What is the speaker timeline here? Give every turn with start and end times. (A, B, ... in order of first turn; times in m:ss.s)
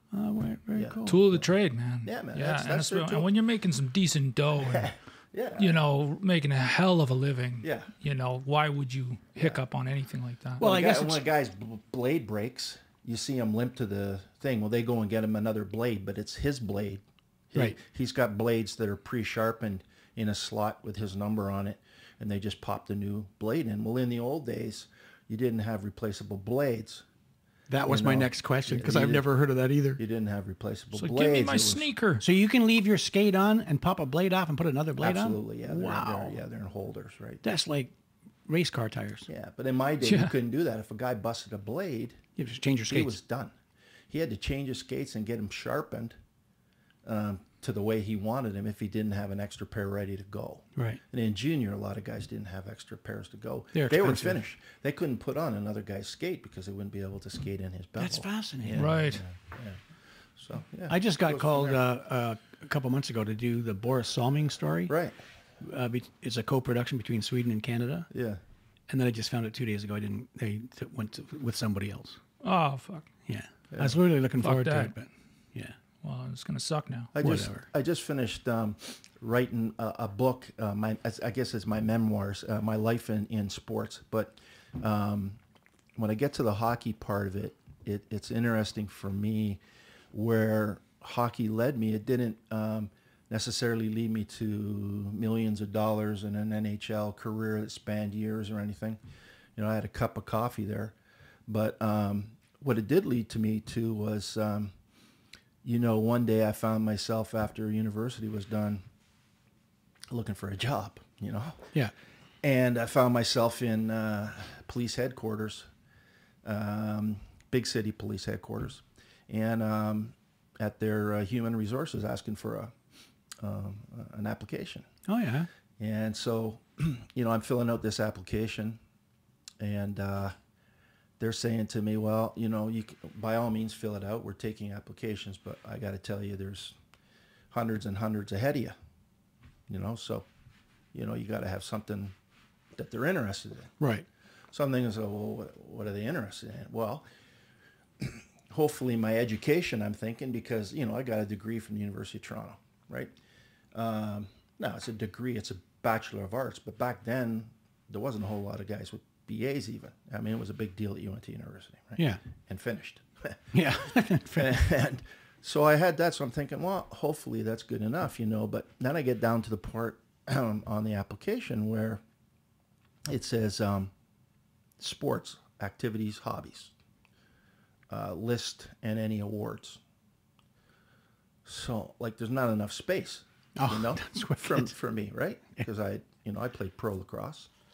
0:00.1-0:01.2 A
0:00.7-0:01.5 B
0:01.1-0:04.9 C
0:02.0-0:03.3 B
0:04.6-0:05.8 B
0:05.6-0:10.6 C
0:07.6-0:07.9 B
0:10.6-0:11.2 A
0:10.6-0:27.0 B
0:27.7-0:30.0 A
0:27.9-0:29.3 B
0:30.0-0:31.9 B
0:30.9-0:32.2 C
0:32.2-0:36.4 A
0:35.0-0:37.5 B
0:37.4-0:37.9 A
0:38.5-0:39.3 A
0:39.3-0:42.2 B
0:40.0-0:40.3 C
0:42.4-0:43.2 A
0:42.9-0:43.5 B
0:44.1-0:46.1 B
0:47.0-1:01.8 B
0:50.8-0:51.0 A
0:53.7-0:54.4 A
0:58.0-0:58.9 A
0:58.8-0:59.2 C
1:00.9-1:04.9 A
1:04.9-1:05.2 B
1:05.6-1:08.1 A
1:08.1-1:08.4 B
1:08.9-1:12.2 A
1:12.4-1:13.1 C
1:13.3-1:15.8 A
1:13.7-1:14.0 B
1:14.4-1:14.9 C
1:16.0-1:17.1 C
1:17.1-1:25.4 B
1:17.2-1:17.7 A
1:26.0-1:29.6 B
1:30.1-1:39.0 B
1:39.6-1:41.0 B
1:41.5-1:44.8 B
1:45.6-1:48.8 B
1:50.1-1:51.8 B
1:52.4-1:55.7 B
1:56.4-2:02.7 B
2:03.4-2:04.9 B
2:05.1-2:05.5 A
2:05.8-2:08.8 B
2:09.6-2:10.4 B
2:11.2-2:16.8 B
2:17.5-2:18.8 B
2:19.7-2:20.3 B
2:20.9-2:22.2 B
2:22.8-2:23.8 B
2:23.8-2:24.1 A
2:24.5-2:27.0 B
2:28.0-2:33.1 B
2:33.7-2:43.5 B
2:43.5-2:44.6 A
2:44.2-2:52.0 B
2:53.1-2:53.9 B
2:54.8-2:56.7 B
2:57.9-2:59.8 B
3:01.4-3:07.5 B
3:03.6-3:04.7 A